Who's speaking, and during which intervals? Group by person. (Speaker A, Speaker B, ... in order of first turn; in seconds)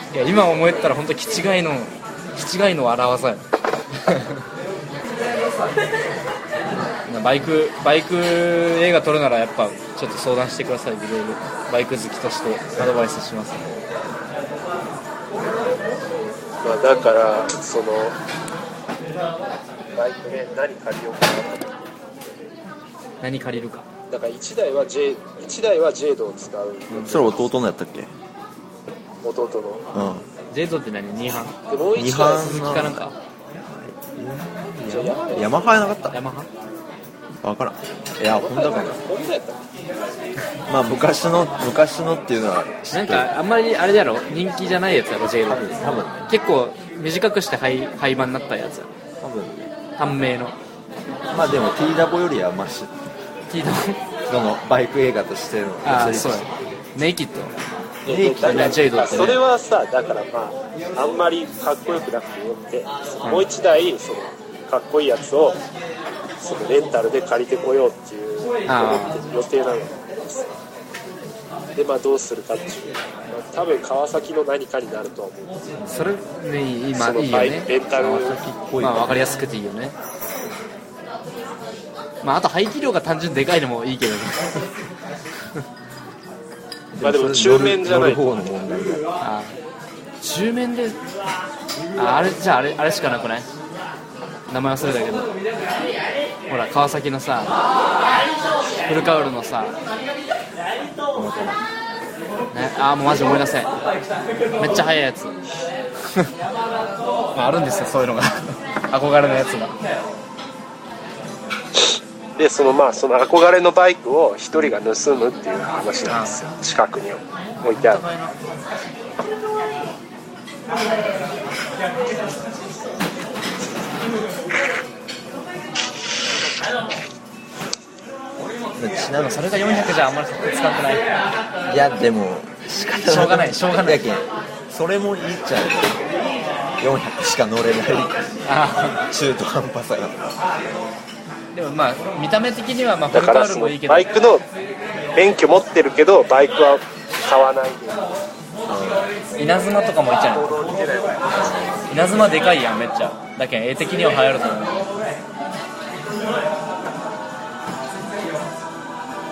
Speaker A: 0.1-4.4, 7.0-13.7, 23.2-23.9, 26.9-27.2, 30.5-31.6, 32.4-33.1, 36.1-36.5, 42.9-48.9, 50.0-50.5, 53.5-54.0, 55.8-57.5, 58.3-59.4, 68.7-69.2, 75.9-77.7, 78.8-80.0, 82.2-84.7, 89.2-89.6, 90.2-91.0, 92.0-93.5, 94.5-95.3, 96.5-97.5, 98.8-99.7, 102.5-103.8, 104.6-105.4, 107.3-109.8, 116.1-116.3, 117.6-118.3, 129.2-131.0, 133.0-134.1, 138.5-139.0, 141.5-144.0, 149.4-150.6, 151.9-154.8
Speaker B: 16.6-18.2, 19.9-22.1, 24.1-27.4, 29.2-29.8, 31.7-32.6, 34.9-35.8, 38.3-39.6, 58.0-65.6, 66.4-70.5, 71.8-75.6, 76.9-78.4, 87.0-88.3, 112.3-118.0, 143.1-144.4, 145.2-148.1, 150.3-151.3
Speaker C: 27.0-28.1, 29.9-30.3, 31.9-33.0, 33.9-36.2, 37.4-39.0, 40.7-43.3, 45.4-46.3, 49.2-49.6, 51.3-52.9, 54.3-56.5, 58.0-59.3, 78.0-79.2, 86.9-89.0, 101.1-101.6, 128.8-129.9, 131.7-136.1, 136.8-138.2, 139.1-140.3, 148.7-149.1, 151.3-152.2